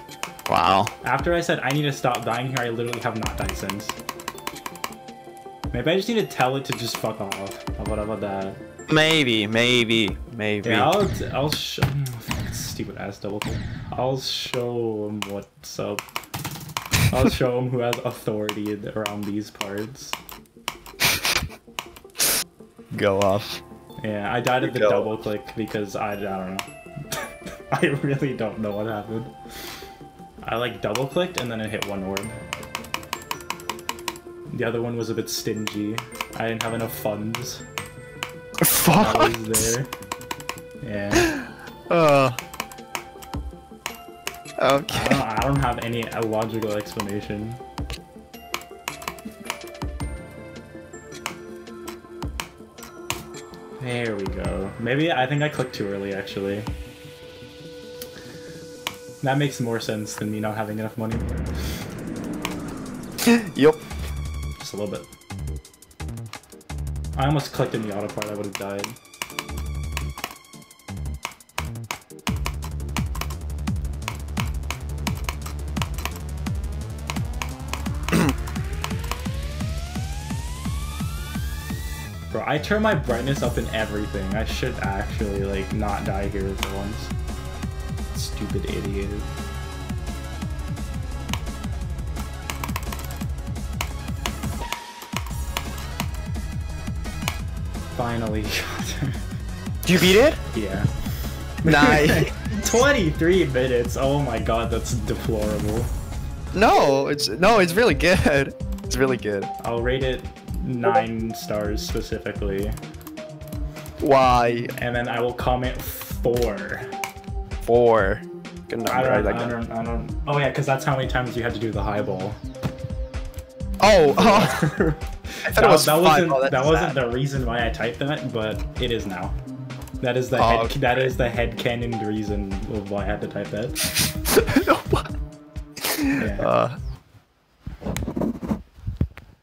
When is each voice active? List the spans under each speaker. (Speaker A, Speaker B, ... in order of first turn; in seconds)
Speaker A: 0.5-0.9, 8.9-10.9, 22.9-23.6, 24.6-25.1, 38.6-39.6, 41.1-42.4, 44.6-45.2, 63.2-63.8, 99.8-100.4, 101.6-102.3, 106.5-109.5, 114.0-114.7, 117.6-119.5, 123.8-124.7, 125.5-127.0, 130.3-131.1, 134.3-135.1, 135.8-136.8
Speaker B: 1.0-4.0, 5.7-8.6, 10.6-16.0, 17.1-20.2, 24.0-29.3, 30.4-32.4, 34.5-37.6, 38.9-39.9, 40.8-41.3, 44.9-47.6, 53.8-56.7, 59.2-61.5, 64.6-65.1, 67.2-69.0, 82.3-87.1, 88.1-89.3, 97.9-99.2, 100.5-105.9, 109.6-112.8, 114.8-116.9, 118.8-122.4, 124.1-129.4, 130.0-133.9, 136.1-136.5